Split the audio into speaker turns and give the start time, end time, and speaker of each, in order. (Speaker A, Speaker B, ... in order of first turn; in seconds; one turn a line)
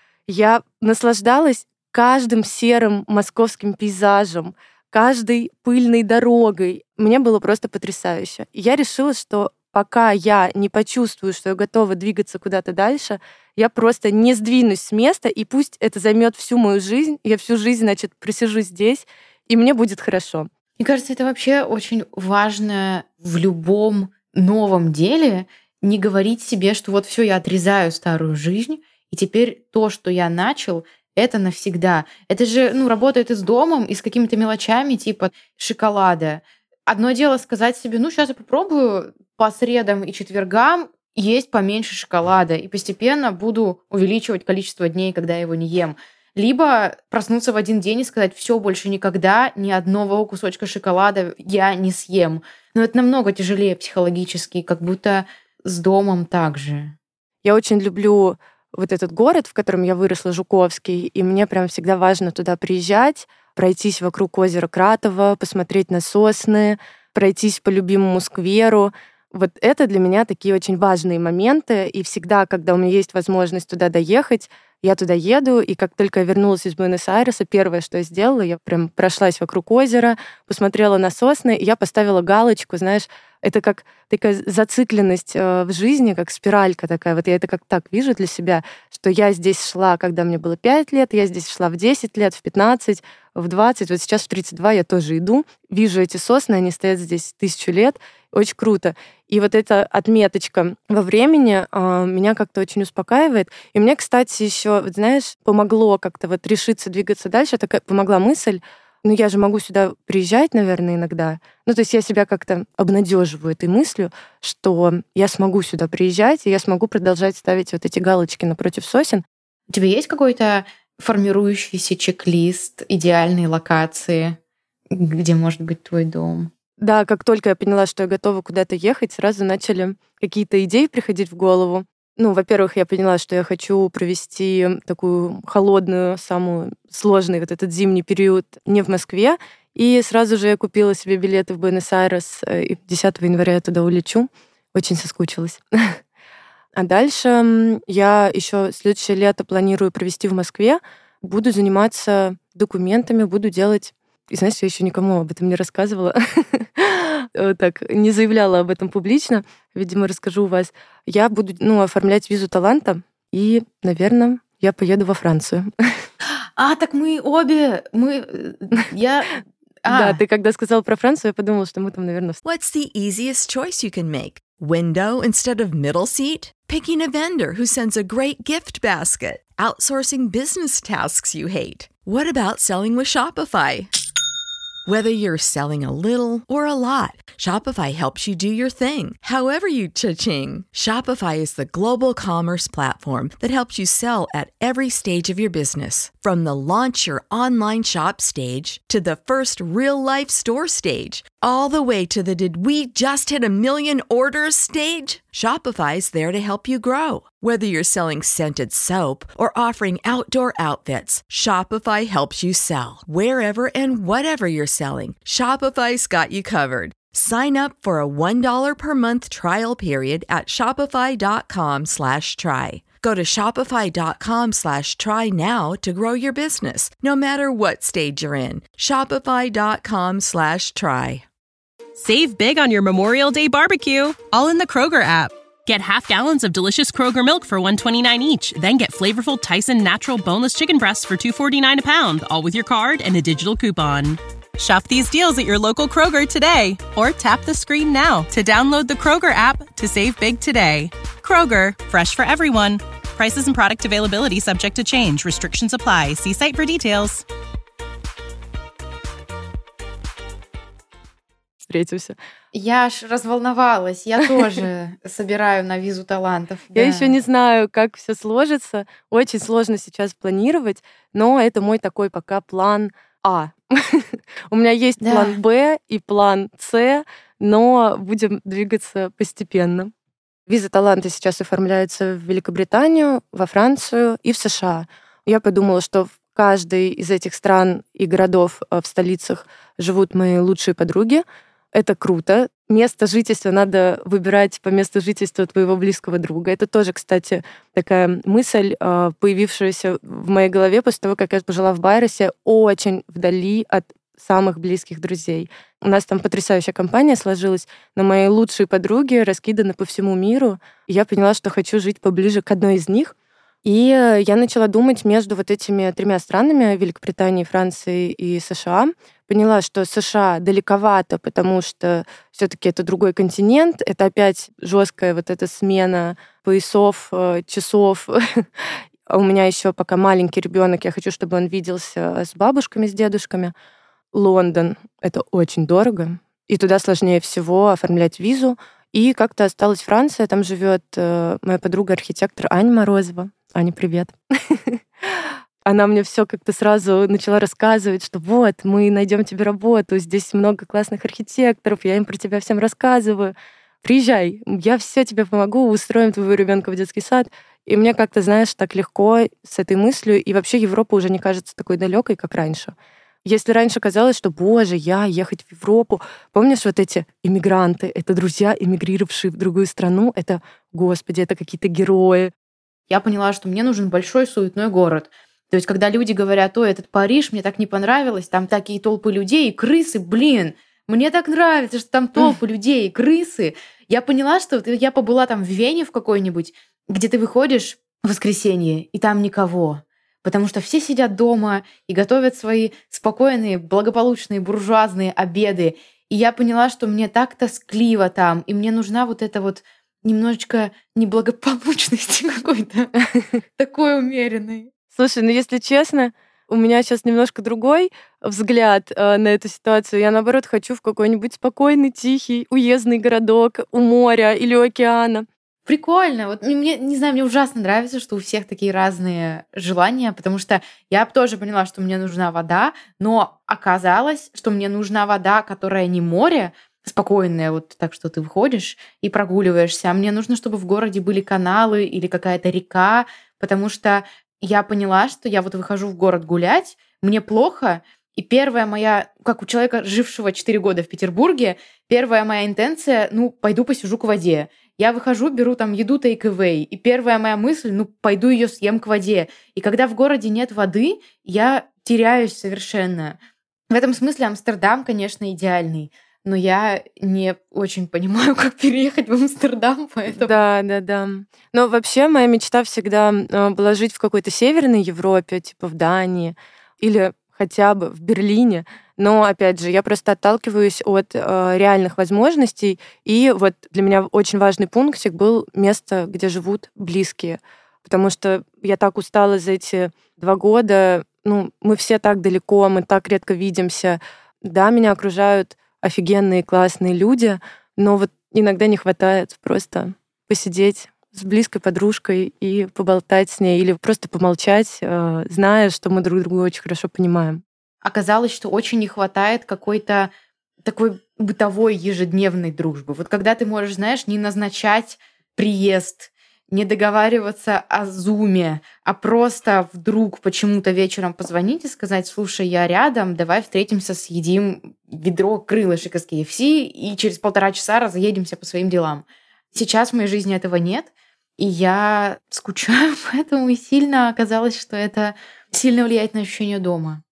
Speaker A: 0.3-20.5
Speaker B: 20.8-56.9
Speaker A: 57.4-119.2
Speaker B: 119.7-124.4
Speaker B: 124.9-126.5
Speaker A: 126.8-146.0
Speaker A: 146.7-166.1
Speaker B: 166.6-170.2
Speaker A: 169.9-172.4
Speaker C: 172.4-183.9
Speaker C: 184.8-231.2
Speaker D: 231.9-257.2
Speaker A: 261.6-262.2
Speaker B: 262.5-267.1
Speaker A: 266.7-279.9
Speaker B: 275.0-275.4
Speaker A: 280.5-291.2
Speaker A: 291.7-333.5
Speaker A: 334.1-362.7
Speaker A: 363.2-372.3
Speaker B: 372.9-402.9
Speaker B: 403.6-404.7
Speaker A: 404.9-415.2
Speaker B: 415.6-453.2
Speaker B: 453.7-460.4
Speaker A: 460.1-497.4
Speaker B: 497.8-500.1
Speaker B: 500.6-527.0